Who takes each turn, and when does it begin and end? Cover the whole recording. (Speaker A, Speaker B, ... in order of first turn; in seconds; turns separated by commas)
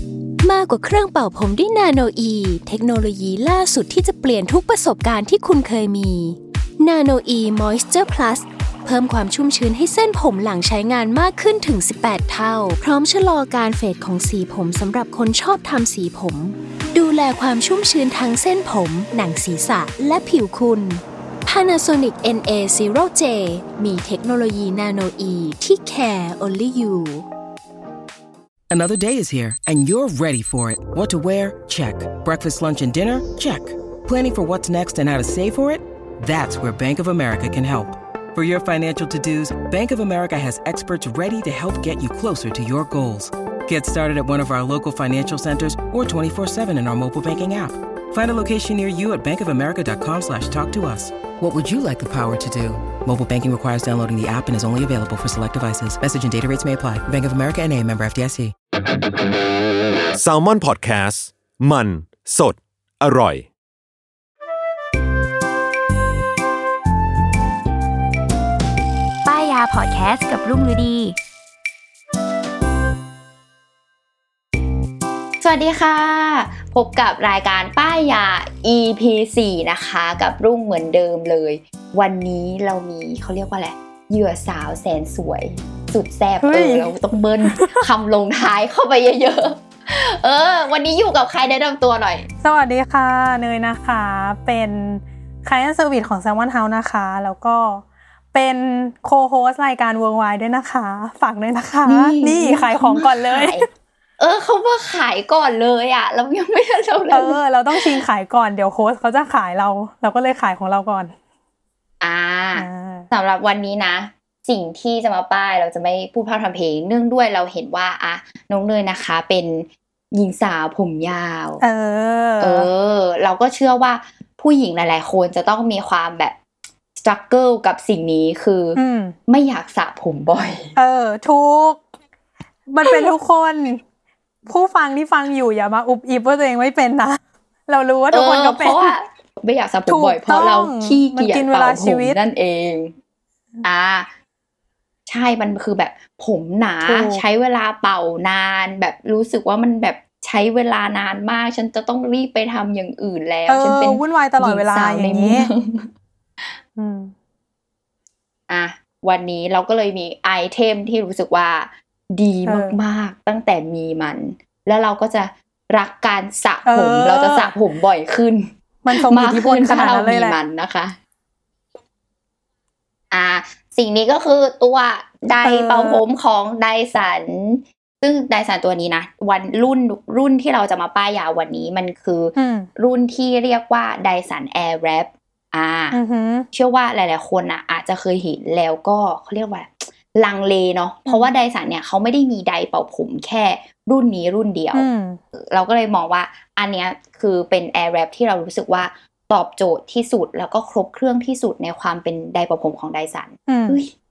Speaker A: 0.4-27.2, Speaker B: 28.7-58.5, Speaker C: 60.1-63.5, Speaker D: 69.2-71.2, Speaker D: 75.4-92.3, Speaker E: 86.4-86.9, Speaker E: 87.4-87.8, Speaker E: 92.4-103.6, Speaker D: 101.8-103.7, Speaker D: 104.2-108.0, Speaker E: 107.1-111.1, Speaker D: 112.0-121.6, Speaker E: 112.5-113.1, Speaker E: 121.6-122.7, Speaker D: 122.4-126.3, Speaker D: 127.0-130.7, Speaker E: 128.8-129.2, Speaker E: 130.8-131.8, Speaker E: 132.7-133.8, Speaker E: 134.5-138.9, Speaker D: 138.1-142.9, Speaker E: 139.9-142.2, Speaker D: 143.6-144.1, Speaker D: 145.1-155.9, Speaker E: 146.8-147.2, Speaker E: 153.5-155.5, Speaker E: 156.8-157.1, Speaker D: 158.5-171.0, Speaker E: 162.4-162.8, Speaker E: 166.6-167.5, Speaker E: 168.8-170.4, Speaker D: 173.1-186.0, Speaker E: 175.4-176.0, Speaker E: 182.3-182.7, Speaker E: 185.9-186.5, Speaker D: 186.5-203.9, Speaker E: 194.7-195.2, Speaker E: 203.5-203.8